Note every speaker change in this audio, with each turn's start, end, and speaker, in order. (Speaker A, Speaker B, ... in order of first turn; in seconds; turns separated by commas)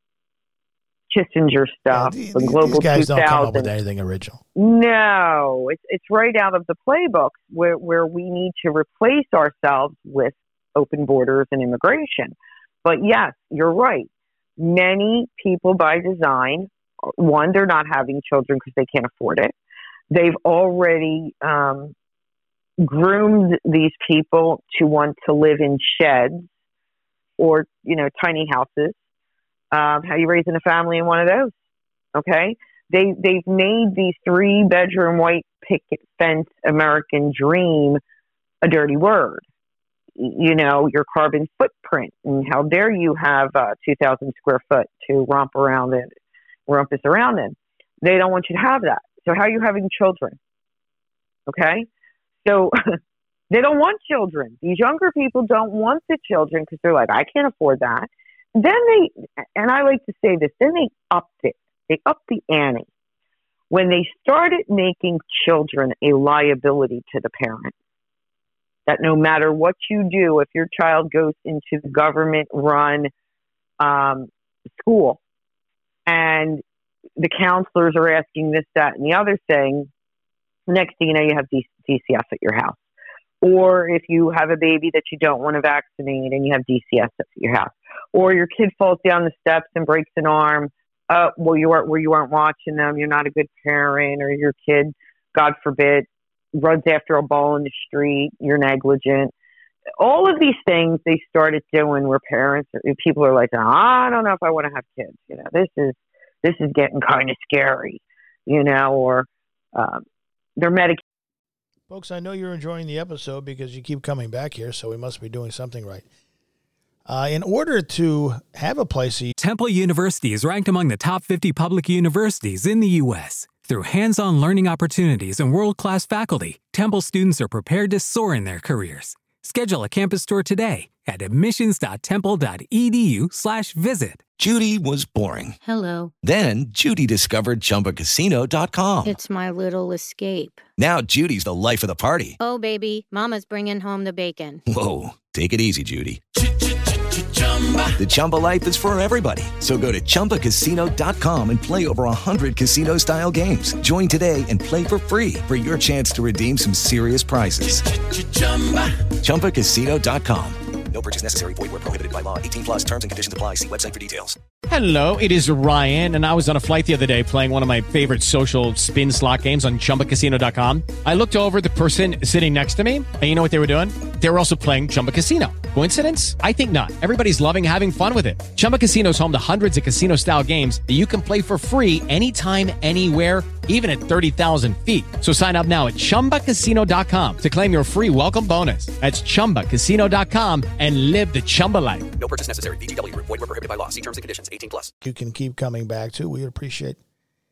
Speaker A: 1.1-3.7, Speaker B: 1.9-4.4, Speaker A: 4.5-19.5, Speaker A: 20.1-21.9, Speaker A: 22.8-26.5, Speaker A: 27.4-29.0, Speaker A: 29.7-31.5, Speaker A: 32.1-38.0, Speaker A: 38.6-39.4, Speaker A: 40.2-46.1, Speaker A: 46.7-50.4, Speaker A: 51.5-51.9, Speaker A: 52.4-52.7, Speaker A: 53.5-62.9, Speaker A: 63.7-67.7, Speaker A: 68.9-73.1, Speaker A: 73.8-75.2, Speaker A: 76.0-76.6, Speaker A: 77.2-79.9, Speaker A: 80.7-82.8, Speaker A: 83.4-99.3, Speaker A: 100.0-110.0, Speaker A: 110.6-111.0, Speaker B: 111.9-116.0, Speaker B: 117.0-119.3, Speaker C: 119.4-134.3, Speaker D: 134.4-135.6, Speaker E: 135.6-136.1, Speaker D: 136.2-139.2, Speaker E: 139.0-140.6, Speaker D: 140.8-142.4, Speaker E: 142.4-144.6, Speaker D: 144.7-146.2, Speaker D: 147.9-164.4, Speaker F: 164.7-192.1, Speaker D: 192.2-194.9, Speaker B: 195.0-197.0